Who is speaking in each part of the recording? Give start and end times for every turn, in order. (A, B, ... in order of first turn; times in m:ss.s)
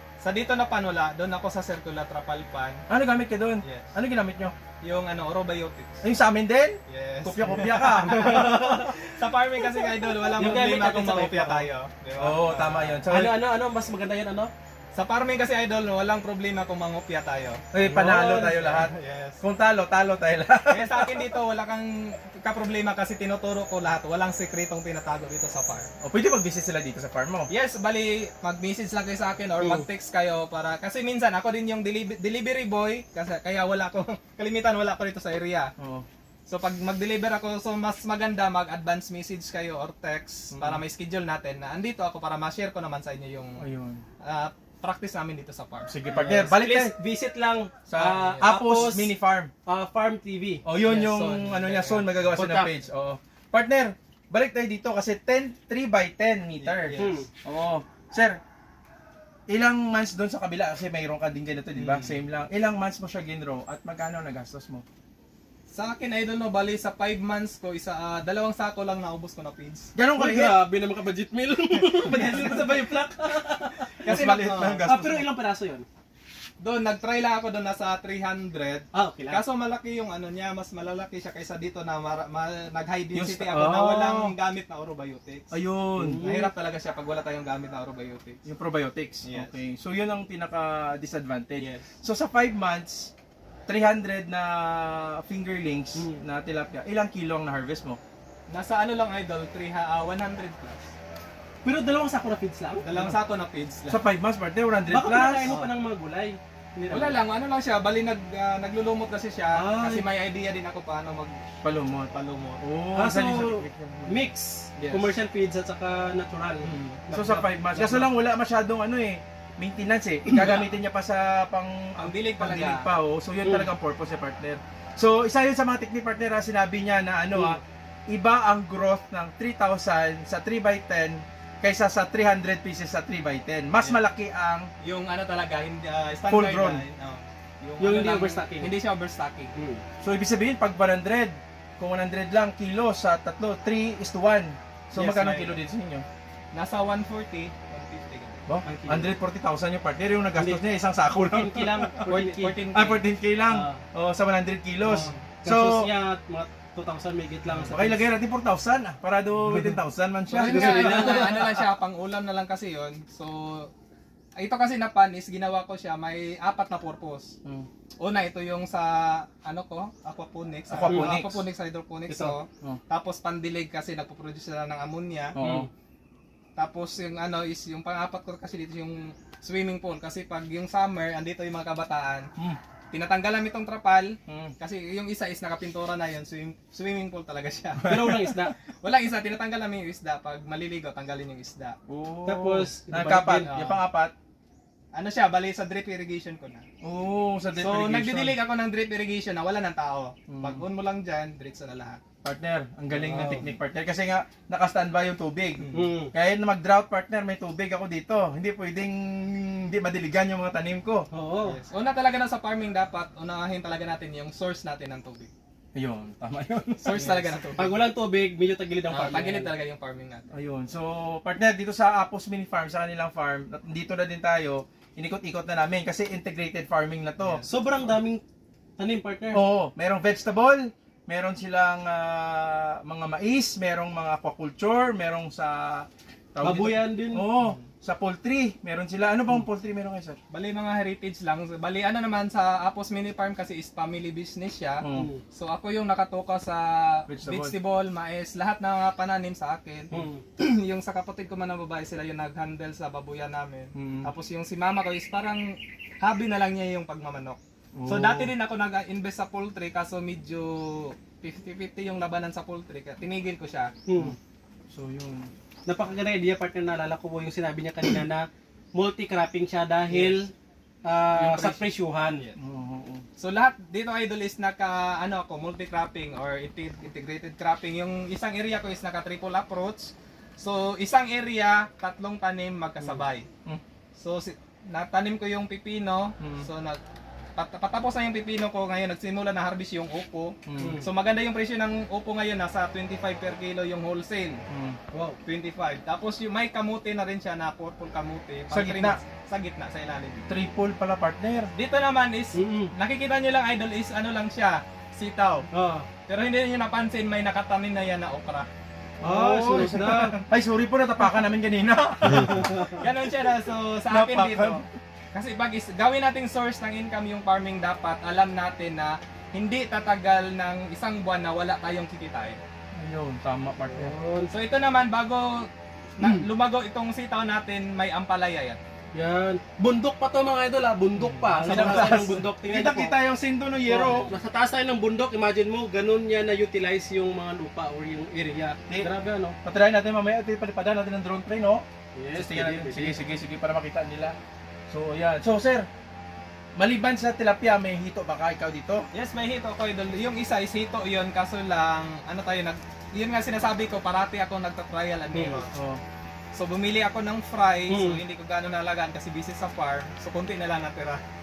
0:00.2-0:02.8 A
0:02.9-0:04.6 B
0:03.6-0:03.9 A
0:04.8-0:06.0 A
0:06.0-0:08.4 B
0:06.9-0:13.0 A
0:08.0-0:08.9 C
0:10.4-0:11.7 C
0:12.2-0:13.3 B
0:13.1-0:14.5 C
0:14.9-0:17.6 A
0:17.7-0:21.2 B
0:17.8-0:18.6 C
0:18.4-0:19.4 A
0:20.7-0:25.9 A
0:26.0-0:27.5 B
0:27.5-0:35.7 A
0:29.6-0:29.9 C
0:35.8-0:36.1 B
0:36.5-0:43.6 A
0:40.5-0:40.8 B
0:43.6-0:44.0 B
0:44.2-0:45.9 A
0:45.9-0:46.9 B
0:46.1-0:49.1 C
0:47.9-0:49.5 B
0:48.0-0:48.5 A
0:49.6-0:50.6 C
0:50.6-0:58.4 B
0:50.8-0:52.3 A
0:52.4-0:52.7 C
0:56.6-0:57.2 A
0:57.0-0:57.3 C
0:59.5-1:04.8 B
1:01.8-1:02.2 A
1:05.7-1:09.9 A
1:09.9-1:10.6 B
1:10.2-1:13.9 C
1:11.9-1:13.2 B
1:14.0-1:14.9 A
1:14.0-1:15.3 B
1:14.9-1:15.9 C
1:16.6-1:25.5 A
1:18.9-1:19.4 C
1:23.1-1:24.3 B
1:25.5-1:26.3 B
1:26.0-1:26.5 C
1:26.2-1:28.4 A
1:28.4-1:33.1 B
1:29.2-1:29.6 A
1:31.6-1:31.9 A
1:33.7-1:38.0 B
1:36.0-1:36.2 C
1:38.5-1:40.9 A
1:41.6-1:42.8 C
1:42.8-1:44.0 A
1:43.9-1:45.5 B
1:44.9-1:47.2 C
1:45.5-1:45.7 A
1:46.9-1:51.4 A
1:49.5-1:50.1 C
1:51.6-1:52.1 B
1:52.1-1:52.6 A
1:52.6-1:54.2 B
1:52.9-1:58.1 C
1:54.8-1:55.1 A
1:56.6-1:57.0 A
1:57.1-2:14.7 B
2:00.3-2:00.7 A
2:02.0-2:02.9 A
2:03.4-2:03.7 C
2:07.3-2:07.6 C
2:14.8-2:19.5 A
2:16.3-2:16.8 B
2:17.8-2:18.7 C
2:19.6-2:19.8 C
2:20.0-2:26.0 B
2:24.9-2:25.6 A
2:26.5-2:28.4 A
2:28.5-2:31.9 B
2:28.6-2:29.1 C
2:30.3-2:30.6 C
2:31.2-2:32.5 C
2:31.4-2:33.1 A
2:32.7-2:35.9 B
2:33.5-2:33.8 C
2:34.8-2:35.2 A
2:34.9-2:38.0 C
2:37.5-2:41.6 B
2:39.4-2:39.8 C
2:40.3-2:43.7 A
2:40.3-2:41.6 C
2:44.4-2:47.3 A
2:48.0-2:55.4 A
2:50.7-2:51.4 B
2:50.8-2:51.2 C
2:52.1-2:52.3 C
2:55.3-2:55.7 B
2:55.4-2:55.7 C
2:56.6-3:02.3 A
3:02.9-3:08.3 A
3:04.3-3:04.5 B
3:07.8-3:08.4 B
3:07.8-3:08.5 C
3:08.8-3:11.8 A
3:11.9-3:14.1 B
3:12.2-3:13.5 C
3:13.4-3:13.8 A
3:14.9-3:16.6 A
3:16.8-3:18.4 B
3:17.6-3:22.0 A
3:20.3-3:20.6 B
3:22.2-3:31.1 B
3:22.9-3:23.5 C
3:25.6-3:25.9 A
3:25.7-3:26.1 C
3:31.1-3:31.6 C
3:31.4-3:35.3 A
3:35.7-3:37.1 B
3:36.8-3:37.8 A
3:36.9-3:39.5 C
3:38.9-3:40.3 A
3:40.3-3:47.4 B
3:47.2-3:47.5 A
3:47.5-3:48.2 C
3:48.8-3:49.4 C
3:49.3-4:00.2 B
3:56.4-3:57.3 C
4:00.3-4:23.7 A
4:04.8-4:05.1 B
4:04.9-4:05.2 C
4:07.1-4:07.6 B
4:09.9-4:10.2 C
4:13.7-4:14.1 B
4:17.8-4:18.3 B
4:23.9-4:24.2 C
4:24.7-4:25.3 B
4:25.7-4:30.3 C
4:29.9-4:30.2 A
4:30.8-4:32.2 C
4:31.1-4:32.3 A
4:32.4-4:33.0 B
4:33.2-4:43.3 A
4:44.0-4:46.8 A
4:46.2-4:46.5 B
4:47.4-4:54.4 A
4:50.4-4:50.8 B
4:50.6-4:50.9 C
4:54.5-4:54.8 B
4:54.9-4:55.2 C
4:55.2-5:00.3 A
4:58.5-4:59.0 B
5:00.3-5:01.5 B
5:01.6-5:05.5 A
5:02.3-5:02.7 C
5:05.5-5:05.9 C
5:06.1-5:08.5 A
5:09.0-5:10.2 C
5:09.0-5:12.8 B
5:09.5-5:10.2 A
5:12.2-5:12.8 C
5:12.8-5:22.4 A
5:13.9-5:14.7 B
5:22.8-5:23.9 B
5:23.7-5:24.3 C
5:24.3-5:28.6 A
5:28.9-5:32.9 C
5:31.0-5:32.2 A
5:31.4-5:34.1 B
5:33.6-5:39.4 C
5:39.4-5:44.2 B
5:42.0-5:43.0 C
5:44.7-5:45.7 B
5:46.6-5:48.8 B
5:48.9-5:55.5 A
5:55.1-5:55.4 C
5:55.5-5:55.8 B
5:56.3-6:01.0 A
5:57.7-5:58.0 C